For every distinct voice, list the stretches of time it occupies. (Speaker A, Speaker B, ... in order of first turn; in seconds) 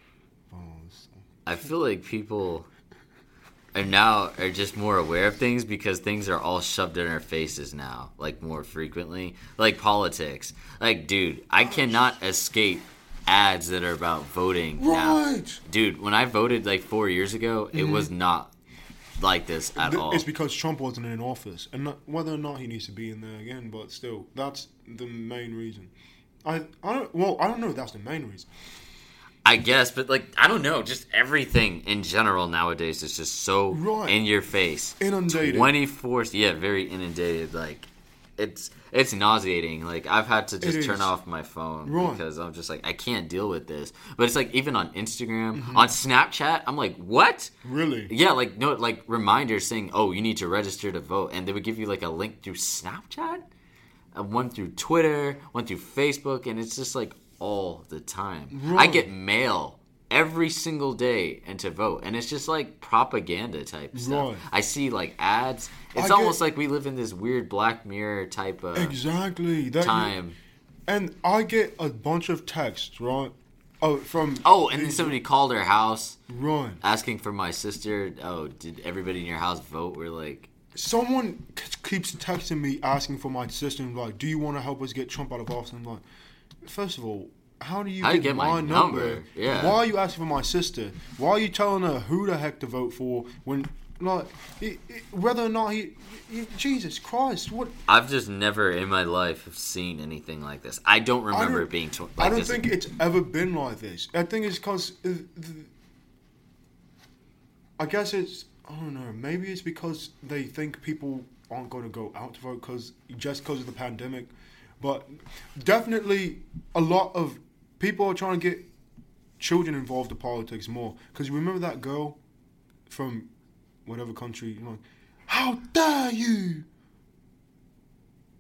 Speaker A: 0.5-1.2, 11.6-12.0, 14.8-15.6, 17.7-18.1, 19.8-25.9, 26.4-28.5, 33.7-34.2, 35.0-35.8, 40.6-41.1, 41.9-42.2, 45.5-45.9, 47.6-48.1, 58.5-59.1, 63.9-64.5, 66.0-66.4, 68.8-70.2, 70.9-75.2, 76.3-76.8, 80.7-86.0, 86.6-97.8, 101.3-105.7, 107.8-118.7, 119.4-122.2, 122.9-123.3, 123.9-126.7
Speaker B: 1.5-2.7, 3.8-18.5, 19.2-20.3, 29.4-47.5, 48.1-53.4, 54.1-69.0, 69.8-70.4, 74.4-76.2, 76.8-80.5, 88.0-89.8, 97.9-102.7